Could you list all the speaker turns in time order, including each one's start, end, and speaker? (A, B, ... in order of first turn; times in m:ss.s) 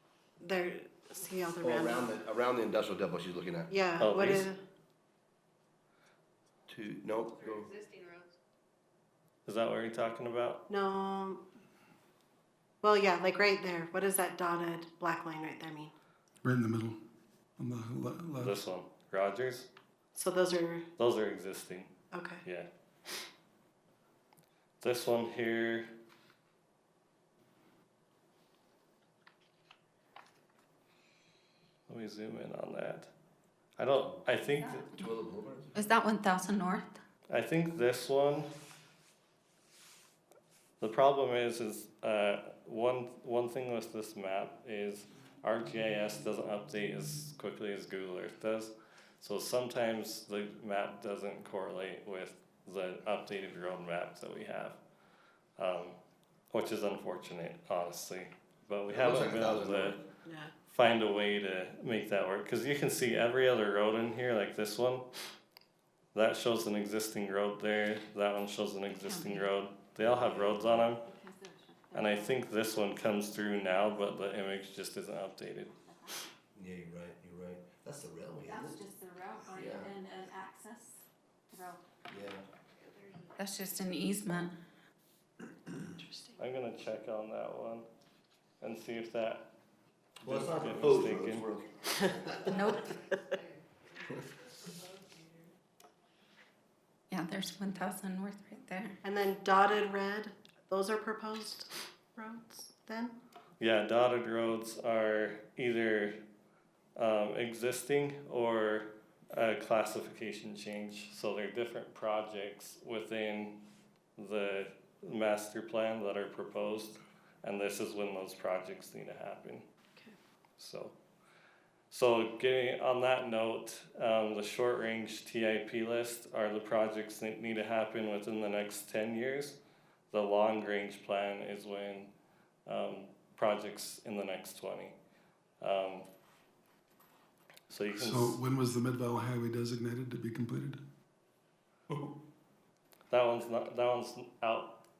0:00.4-0:02.1 A
0:01.6-0:03.7 B
0:03.7-0:04.6 A
0:04.0-0:04.5 C
0:06.7-0:07.7 B
0:09.4-0:10.6 C
0:10.7-0:11.4 A
0:12.8-0:15.9 A
0:16.4-0:17.0 D
0:17.6-0:18.6 D
0:18.4-0:19.7 C
0:20.1-0:20.8 A
0:21.0-0:21.9 C
0:22.1-0:22.4 A
0:24.8-0:25.9 C
0:31.9-0:33.1 C
0:33.8-0:34.9 C
0:34.4-0:35.0 E
0:34.9-0:35.9 B
0:35.8-0:37.0 E
0:37.3-0:38.5 C
0:40.8-0:54.8 C
0:55.6-0:56.0 C
0:56.5-1:00.0 C
0:58.9-1:00.0 B
1:00.2-1:00.5 A
1:00.7-1:05.0 C
1:06.1-1:11.0 C
1:08.9-1:09.5 E
1:10.0-1:10.9 B
1:11.0-1:12.5 E
1:11.9-1:15.7 C
1:15.7-1:16.2 E
1:16.6-1:18.8 B
1:18.4-1:21.8 E
1:19.5-1:19.9 B
1:22.1-1:22.4 B
1:23.4-1:24.5 E
1:25.8-1:26.3 A
1:26.4-1:27.8 C
1:28.6-1:29.5 C
1:30.2-1:32.8 B
1:30.2-1:31.4 C
1:32.4-1:33.0 E
1:37.1-1:39.0 E
1:39.0-1:43.2 A
1:43.6-1:46.2 C
1:47.0-1:53.6 C
1:54.2-1:59.6 C
2:00.6-2:00.9 C
2:01.9-2:09.6 C
2:10.1-2:12.1 C
2:12.6-2:15.0 C
2:15.6-2:16.1 C
2:17.7-2:18.4 C
2:17.9-2:20.8 D
2:21.9-2:22.2 B
2:23.1-2:24.8 C